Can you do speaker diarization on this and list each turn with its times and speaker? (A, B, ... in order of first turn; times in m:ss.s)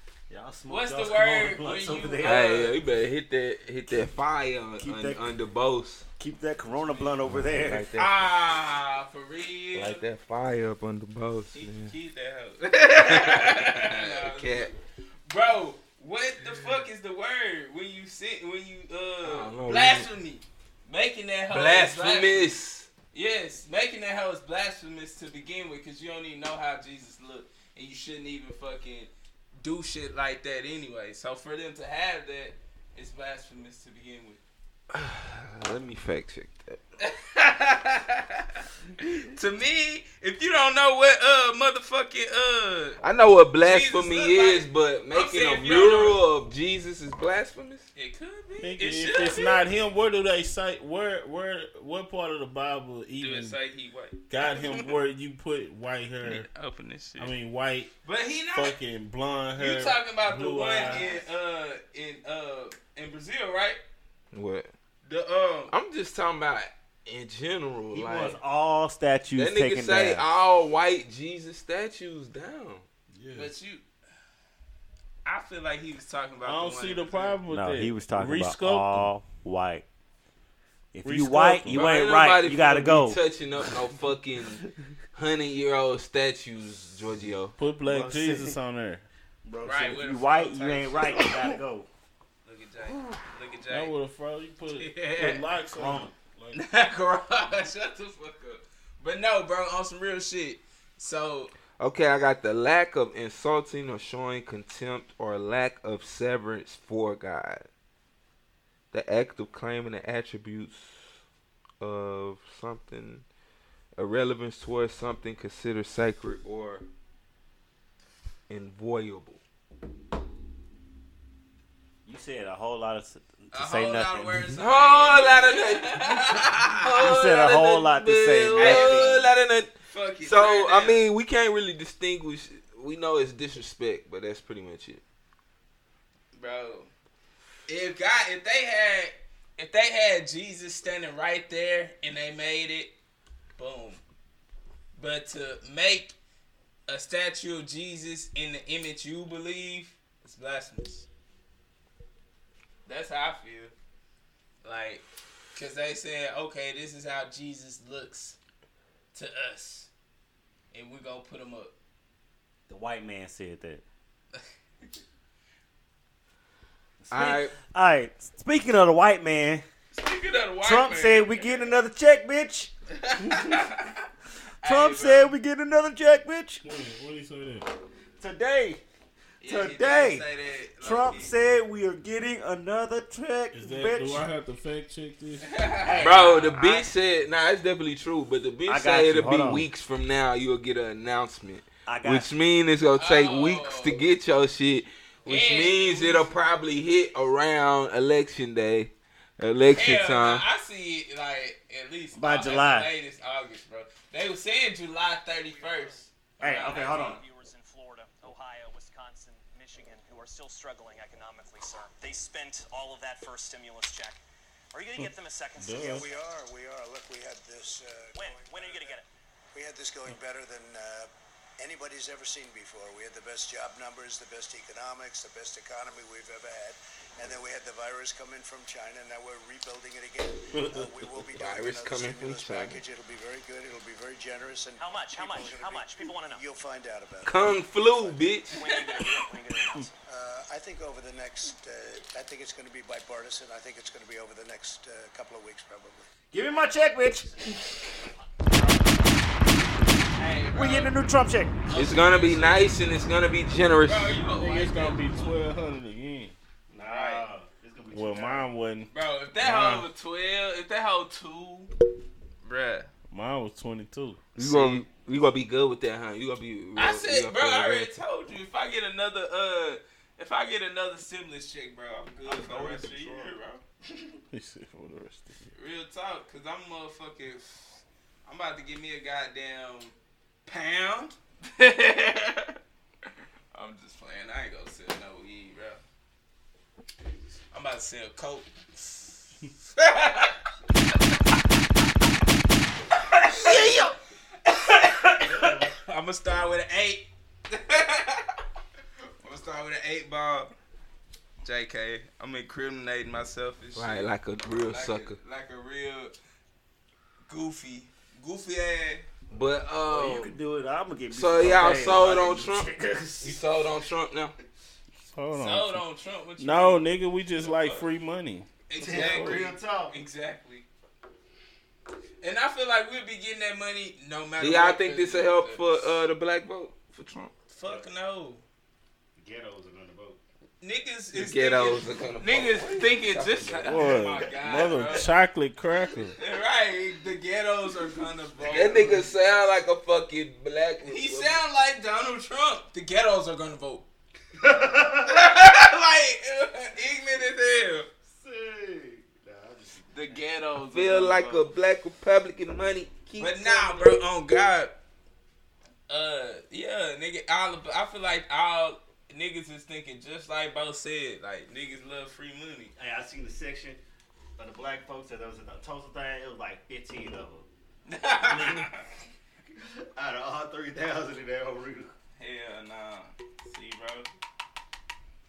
0:00.3-0:02.8 A
0:00.7-0:02.8 B
0:02.2-0:06.1 C
0:04.8-0:05.2 A
0:06.2-0:07.9 A
0:06.8-0:07.1 B
0:07.4-0:08.3 C
0:08.0-0:10.0 B
0:09.8-0:11.9 C
0:11.5-0:22.5 B
0:13.0-0:14.7 C
0:19.2-0:20.1 C
0:21.5-0:22.9 C
0:23.1-0:34.4 B
0:34.9-0:36.8 C
0:37.0-0:43.0 B
0:43.0-0:47.9 C
0:43.6-0:46.2 B
0:48.0-0:49.6 B
0:48.6-0:53.6 D
0:53.2-0:55.0 B
0:54.3-0:56.5 D
0:56.2-0:57.3 B
0:57.2-0:57.9 D
0:58.0-0:58.8 B
0:58.5-1:01.1 D
0:59.6-1:03.8 B
1:04.3-1:04.7 C
1:05.0-1:05.7 B
1:05.7-1:08.4 C
1:07.9-1:10.3 A
1:09.4-1:12.9 C
1:13.1-1:13.5 D
1:13.4-1:13.8 B
1:15.2-1:17.4 B
1:16.4-1:19.1 D
1:17.5-1:19.8 A
1:20.9-1:23.2 A
1:21.0-1:22.0 D
1:21.7-1:24.6 C
1:25.2-1:27.6 C
1:27.6-1:29.0 D
1:27.8-1:28.6 A
1:29.4-1:31.9 A
1:29.6-1:31.3 B
1:32.4-1:33.9 B
1:33.7-1:36.6 D
1:34.8-1:35.4 B
1:35.7-1:36.1 A
1:36.5-1:41.5 B
1:41.8-1:47.7 C
1:48.9-1:51.2 C
1:51.8-1:53.2 C
1:54.0-1:56.9 C
1:58.5-1:59.4 C
2:02.0-2:04.5 A
2:03.5-2:06.9 B
2:04.6-2:15.0 C
2:07.0-2:09.3 A
2:08.6-2:09.2 B
2:09.9-2:11.0 B
2:16.3-2:16.9 B
2:17.7-2:22.9 B
2:23.6-2:24.0 B
2:25.0-2:26.2 B
2:26.9-2:31.1 B
2:32.9-2:33.7 B
2:34.6-2:35.0 B
2:35.6-2:38.4 B
2:39.1-2:39.9 B
2:40.7-2:41.7 B
2:42.7-2:43.8 A
2:44.4-2:44.9 B
2:47.0-2:49.6 A
2:47.1-2:47.5 C
2:49.9-2:51.8 B
2:50.6-2:52.7 A
2:52.9-2:54.1 B
2:54.6-2:55.4 B
2:54.6-2:56.6 A
2:56.6-2:57.7 D
2:58.2-2:58.8 A
2:59.4-3:01.3 B
2:59.4-3:00.3 A
3:00.8-3:04.3 A
3:03.5-3:05.6 D
3:05.4-3:06.7 B
3:05.8-3:06.9 A
3:06.0-3:20.4 C
3:08.7-3:09.7 A
3:11.9-3:12.3 A
3:13.0-3:14.0 B
3:15.3-3:16.3 B
3:19.7-3:27.2 B
3:22.2-3:22.9 A
3:25.4-3:34.2 E
3:26.4-3:27.2 A
3:34.7-3:36.2 E
3:35.0-3:36.0 D
3:35.9-3:39.0 F
3:38.1-3:39.1 E
3:39.5-3:58.2 F
3:50.5-3:51.2 D
3:51.4-3:52.8 C
3:54.8-3:56.4 E
3:57.2-3:58.6 C
3:58.5-3:59.9 E
3:58.6-3:59.1 B
4:00.1-4:06.1 F
4:06.3-4:07.7 A
4:10.2-4:11.0 B
4:10.5-4:11.6 A
4:11.7-4:12.8 B
4:11.8-4:14.2 C
4:13.9-4:15.4 B
4:14.3-4:16.4 D
4:16.7-4:18.5 A
4:16.9-4:17.3 B
4:17.9-4:19.9 D
4:18.9-4:21.7 B
4:22.4-4:22.9 B
4:23.1-4:24.2 D
4:24.4-4:27.9 C
4:24.4-4:24.8 B
4:26.8-4:33.6 B
4:32.2-4:33.4 A
4:34.3-4:35.5 D
4:35.6-4:40.0 B
4:40.5-4:42.6 B
4:43.5-4:45.8 B
4:47.5-4:49.2 B
4:49.8-4:50.4 B
4:53.2-4:54.0 B
4:54.5-4:58.3 B
4:55.2-4:55.7 A
4:59.2-5:00.5 B
5:01.4-5:06.2 B
5:03.8-5:05.2 C
5:07.3-5:09.1 B
5:09.3-5:10.4 C
5:09.9-5:13.4 A
5:11.1-5:14.4 C
5:15.0-5:15.8 D
5:15.3-5:16.9 B
5:16.4-5:19.5 D
5:17.4-5:17.9 B
5:18.7-5:20.7 B
5:18.8-5:20.0 A
5:22.2-5:25.8 B
5:24.4-5:27.3 C
5:27.5-5:28.4 B
5:29.2-5:30.2 A
5:30.6-5:35.1 B
5:31.1-5:33.9 C
5:33.6-5:36.2 D
5:36.2-5:39.0 B
5:38.4-5:41.4 C
5:38.6-5:39.0 A
5:40.8-5:43.9 B
5:44.4-5:45.2 A
5:44.9-5:47.9 B
5:48.1-5:50.2 A
5:49.9-5:51.5 B
5:50.7-5:54.0 C
5:53.2-5:54.8 B
5:55.9-6:02.7 B
6:02.8-6:03.8 A
6:04.4-6:07.5 A
6:07.9-6:08.8 B
6:08.2-6:08.7 A
6:10.0-6:11.9 A
6:12.2-6:14.1 B